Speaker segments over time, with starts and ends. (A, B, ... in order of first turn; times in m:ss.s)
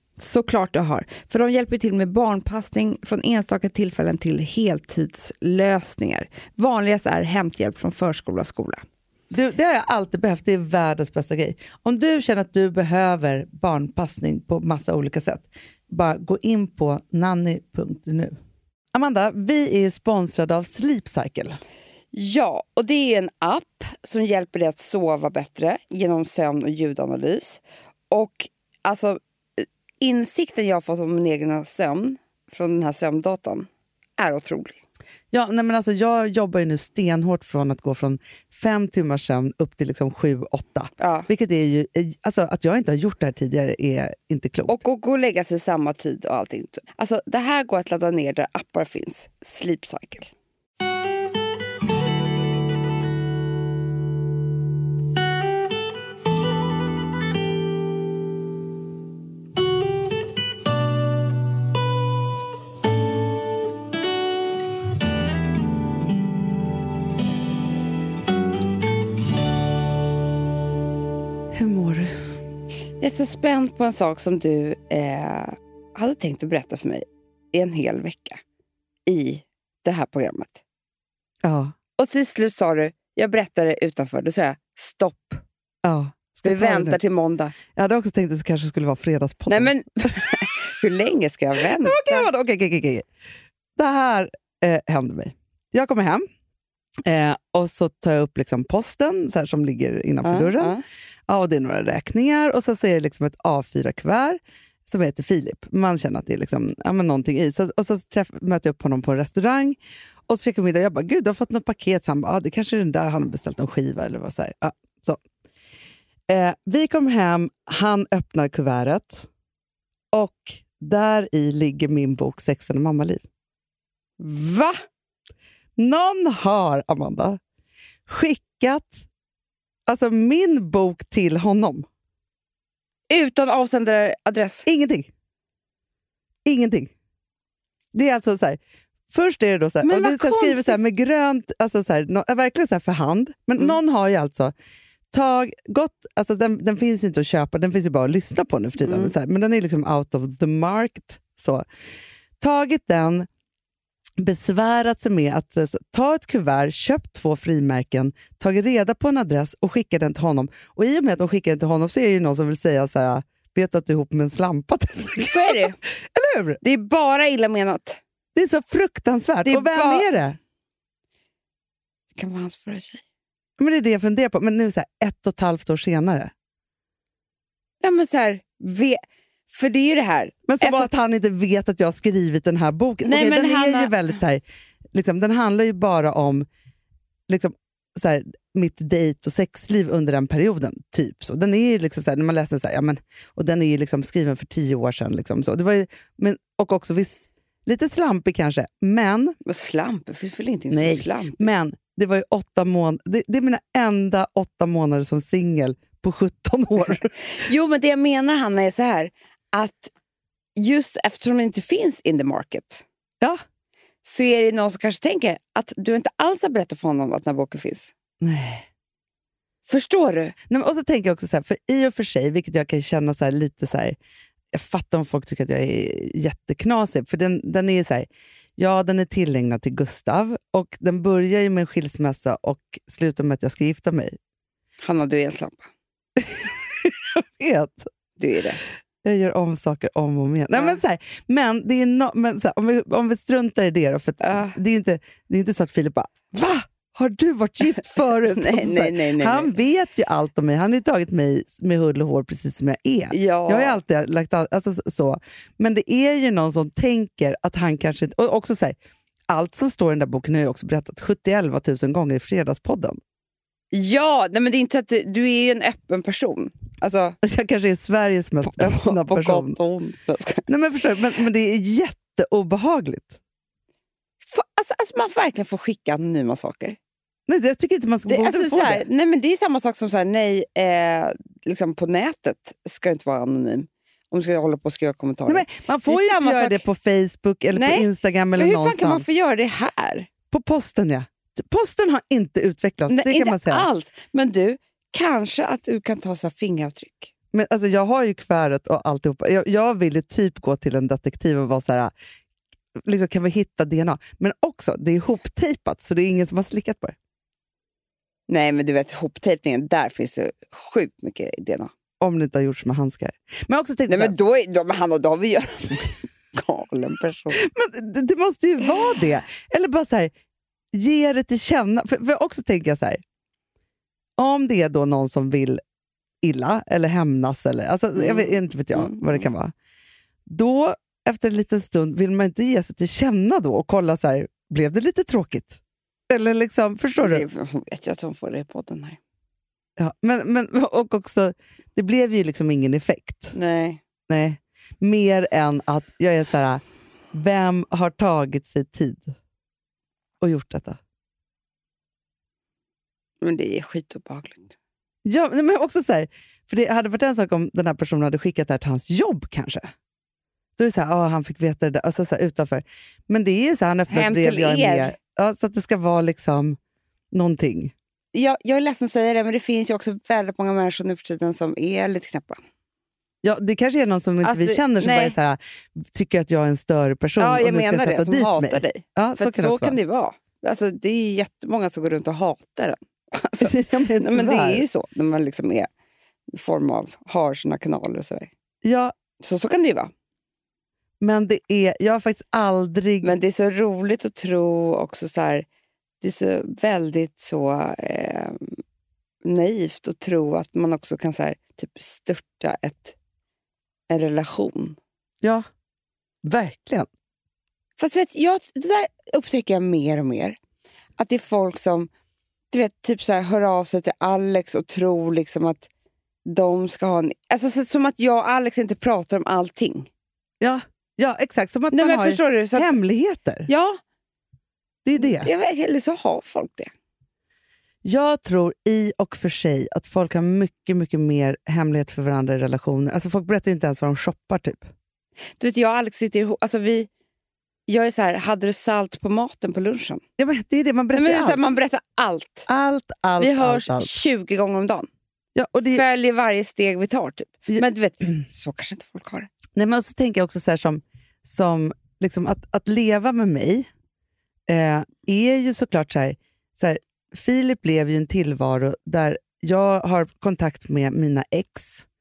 0:00.2-0:08.8 A
0:09.3-0:18.3 B
0:18.9-0:21.6 B
0:22.1-0:34.8 A
0:35.3-0:44.8 B
0:41.0-0:41.3 A
0:44.7-0:50.3 A
1:11.5-1:12.1 B
1:13.0-1:18.4 A
1:19.1-1:20.6 A
1:21.4-1:21.7 B
1:22.0-1:25.4 A
1:25.8-1:27.0 B
1:26.4-1:27.6 A
1:27.7-1:29.7 B
1:29.5-1:32.3 A
1:31.8-1:33.0 B
1:33.8-1:36.2 B
1:37.0-1:40.7 B
1:40.2-1:40.8 A
1:41.3-1:49.8 B
1:50.3-1:55.2 B
1:56.3-1:59.3 B
2:00.1-2:03.2 B
2:04.2-2:04.7 A
2:05.8-2:07.4 B
2:08.1-2:09.0 B
2:09.9-2:11.8 B
2:13.1-2:14.6 A
2:14.6-2:15.1 B
2:16.4-2:16.9 B
2:17.9-2:24.5 B
2:19.8-2:20.8 A
2:25.1-2:31.6 B
2:28.8-2:29.1 A
2:32.4-2:33.3 B
2:34.2-2:46.6 B
2:45.2-2:45.8 A
2:46.6-2:48.0 A
2:48.3-2:50.4 B
2:49.4-2:50.1 A
2:52.1-2:53.0 A
2:53.6-2:56.3 B
2:57.8-2:59.0 A
2:59.5-3:00.9 A
3:00.5-3:04.4 B
3:03.0-3:03.9 A
3:04.9-3:06.4 B
3:07.3-3:19.3 B
3:19.4-3:21.5 A
3:20.7-3:27.1 B
3:27.3-3:29.9 A
3:30.6-3:32.8 A
3:34.0-3:37.9 A
3:38.2-3:38.7 B
3:39.7-3:40.4 A
3:40.5-3:44.0 B
3:44.5-3:54.2 B
3:54.8-3:55.7 A
3:56.2-3:57.9 B
3:58.2-3:58.6 A
3:59.0-4:18.8 B
4:00.5-4:00.8 A
4:04.2-4:04.6 A
4:08.3-4:09.5 A
4:13.1-4:13.8 A
4:19.3-4:23.0 B
4:23.7-4:27.2 A
4:27.2-4:29.6 B
4:28.4-4:30.4 A
4:30.5-4:33.2 B
4:34.2-4:36.8 A
4:37.3-4:38.8 B
4:38.1-4:46.6 A
4:45.3-4:49.0 B
4:47.5-4:50.1 A
4:50.3-4:53.7 B
4:52.9-4:57.1 A
4:57.3-5:01.9 B
5:02.8-5:07.0 B
5:08.3-5:11.7 A
5:12.0-5:14.1 B
5:13.9-5:17.4 A
5:17.4-5:20.1 B
5:20.7-5:23.0 B
5:24.2-5:25.6 B
5:26.2-5:29.5 B
5:28.0-5:29.3 A
5:30.3-5:37.2 B
5:37.0-5:39.0 A
5:39.8-5:43.3 B
5:43.3-5:43.8 A
5:44.1-5:46.6 B
5:47.1-5:49.1 B
5:50.2-5:50.8 B
5:53.2-5:54.5 A
5:55.0-5:59.7 B
6:00.6-6:06.6 B
6:03.9-6:05.0 A
6:07.1-6:07.7 B
6:08.1-6:12.4 A
6:13.2-6:19.8 B
6:14.2-6:15.1 A
6:17.2-6:25.7 A
6:23.4-6:24.6 B
6:26.3-6:28.3 A
6:28.6-6:28.9 B
6:29.2-6:29.9 A
6:31.0-6:33.1 B
6:33.0-6:35.4 A
6:36.0-6:38.6 A
6:39.2-6:42.9 A
6:43.9-6:44.8 A
6:46.2-6:46.9 B
6:47.8-6:50.4 A
6:51.0-6:51.9 A
6:52.5-6:55.7 A
6:56.2-6:59.9 A
7:00.4-7:03.5 B
7:01.7-7:02.8 A
7:03.5-7:03.8 A
7:04.8-7:05.3 B
7:05.0-7:06.7 A
7:07.8-7:14.7 B
7:15.4-7:16.9 A
7:17.7-7:20.0 A
7:20.2-7:21.4 B
7:20.9-7:22.5 A
7:22.5-7:24.0 B
7:23.2-7:24.9 A
7:25.3-7:25.8 B
7:25.7-7:29.3 A
7:29.5-7:33.7 B
7:34.5-7:41.8 B